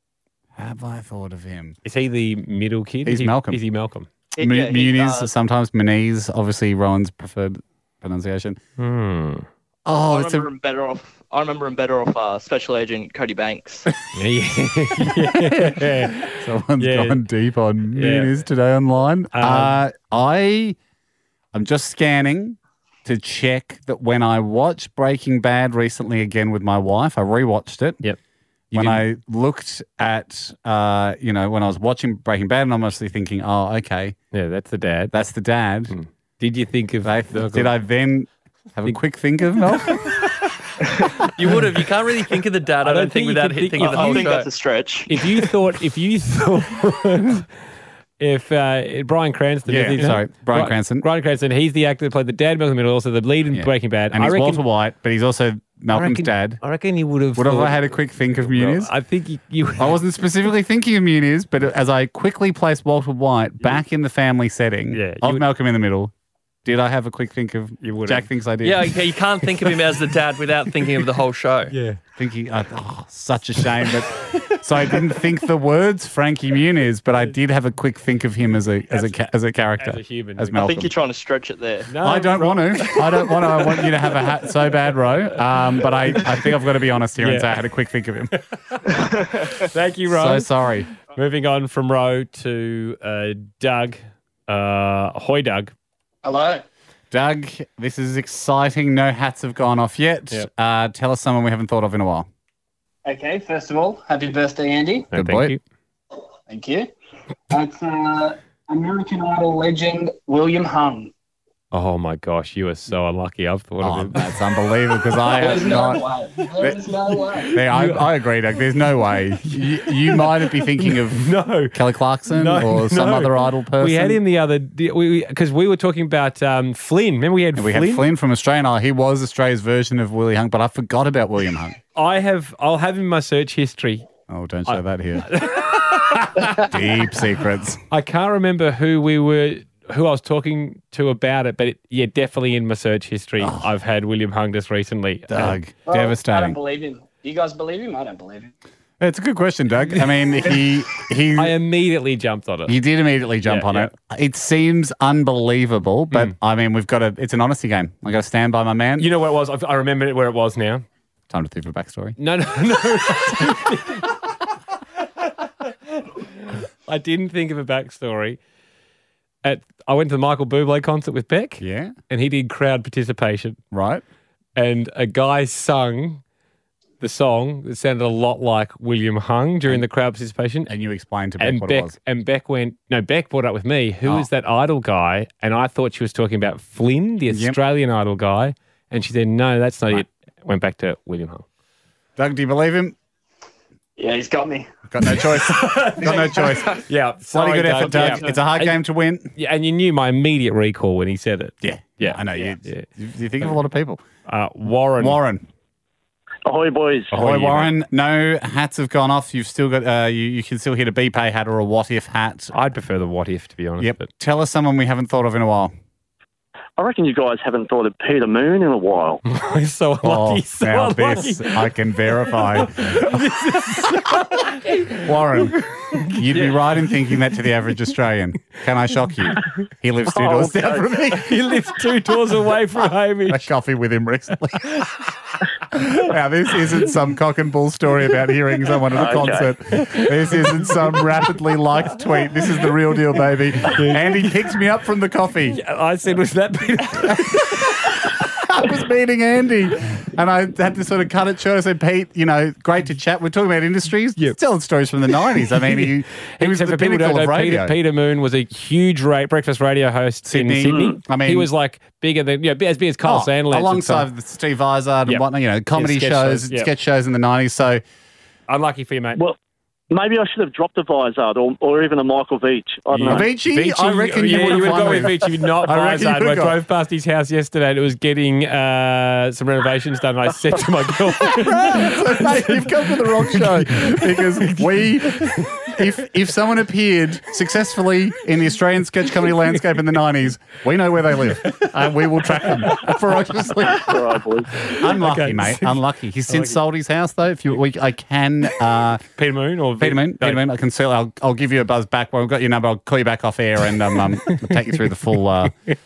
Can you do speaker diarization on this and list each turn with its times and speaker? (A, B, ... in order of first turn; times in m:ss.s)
0:00.6-0:01.8 A
0:01.8-0:04.1 B
0:03.0-0:03.6 A
0:04.3-0:05.3 C
0:04.4-0:08.6 A
0:08.8-0:09.5 B
0:09.9-0:10.5 A
0:10.1-0:13.9 C
0:14.1-0:17.2 B
0:15.1-0:20.8 A
0:18.0-0:18.4 B
0:19.3-0:19.8 B
0:21.5-0:28.0 A
0:28.7-0:34.2 A
0:28.7-0:29.0 B
0:34.3-0:35.2 B
0:35.1-0:36.0 A
0:35.9-0:37.7 B
0:37.0-0:40.2 A
0:39.9-0:40.3 B
0:41.4-0:44.5 D
0:42.8-0:44.5 B
0:43.8-0:45.3 C
0:45.1-0:47.5 B
0:48.2-0:54.6 B
0:49.7-0:51.1 A
0:53.5-0:56.6 A
0:55.9-1:00.0 B
0:57.4-0:58.9 A
0:59.8-1:06.1 A
1:04.9-1:05.4 B
1:06.6-1:08.9 A
1:07.8-1:08.3 B
1:08.6-1:11.8 D
1:09.4-1:10.0 B
1:10.8-1:11.1 B
1:11.7-1:12.0 B
1:12.2-1:20.9 A
1:14.4-1:15.1 B
1:18.9-1:19.2 B
1:19.8-1:20.6 B
1:20.6-1:21.9 C
1:21.9-1:24.1 B
1:22.0-1:28.4 A
1:26.1-1:26.5 B
1:27.2-1:27.6 B
1:28.3-1:35.7 B
1:30.1-1:30.9 A
1:36.2-1:36.6 E
1:37.1-1:42.3 A
1:43.0-1:45.1 E
1:45.1-1:45.6 B
1:45.1-1:45.6 A
1:46.5-1:46.9 E
1:47.5-1:51.1 E
1:51.7-1:54.3 B
1:53.8-1:56.0 A
1:55.3-1:57.6 E
1:56.6-1:56.8 A
1:57.5-1:58.2 B
1:57.5-2:04.2 A
1:59.1-2:01.8 B
2:02.3-2:08.1 B
2:07.6-2:11.8 A
2:12.0-2:14.1 B
2:14.3-2:15.3 A
2:14.7-2:17.2 B
2:16.4-2:17.8 A
2:17.9-2:25.6 B
2:25.3-2:26.6 A
2:25.9-2:28.5 E
2:29.0-2:31.5 A
2:29.9-2:30.6 B
2:31.4-2:32.8 B
2:32.7-2:39.1 A
2:33.4-2:33.9 B
2:39.0-2:40.8 B
2:41.3-2:42.2 A
2:42.2-2:44.2 B
2:46.0-2:48.4 B
2:49.4-2:53.6 B
2:51.6-2:52.0 A
2:53.7-2:54.0 A
2:54.6-2:56.2 B
2:57.0-3:00.7 B
3:00.7-3:02.0 A
3:01.4-3:11.4 B
3:07.3-3:07.6 A
3:12.2-3:13.0 A
3:14.0-3:14.7 E
3:14.9-3:19.3 A
3:15.4-3:18.8 B
3:16.0-3:16.8 E
3:19.4-3:22.9 B
3:21.6-3:24.0 A
3:24.3-3:25.2 B
3:25.0-3:25.4 A
3:26.5-3:27.1 F
3:27.1-3:27.7 B
3:27.1-3:32.5 A
3:32.5-3:34.1 B
3:33.8-3:35.7 A
3:36.8-3:39.2 F
3:39.3-3:41.7 B
3:40.0-3:43.2 A
3:42.3-3:47.1 B
3:44.9-3:51.4 A
3:50.1-3:50.9 F
3:51.1-3:53.5 B
3:53.3-3:54.8 A
3:55.7-4:05.6 A
3:59.0-3:59.5 F
3:59.7-4:01.0 B
4:03.6-4:04.4 B
4:05.5-4:07.9 B
4:07.2-4:17.8 A
4:15.1-4:24.1 B
4:20.3-4:21.5 A
4:20.7-4:21.0 F
4:23.0-4:27.8 A
4:25.1-4:26.7 B
4:28.5-4:29.2 B
4:29.9-4:33.3 F
4:32.9-4:45.8 B
4:33.0-4:36.6 A
4:41.2-4:59.0 A
4:51.4-4:53.9 B
4:53.8-4:54.5 F
4:54.6-4:56.6 B
4:59.2-5:00.4 B
4:59.8-5:05.6 A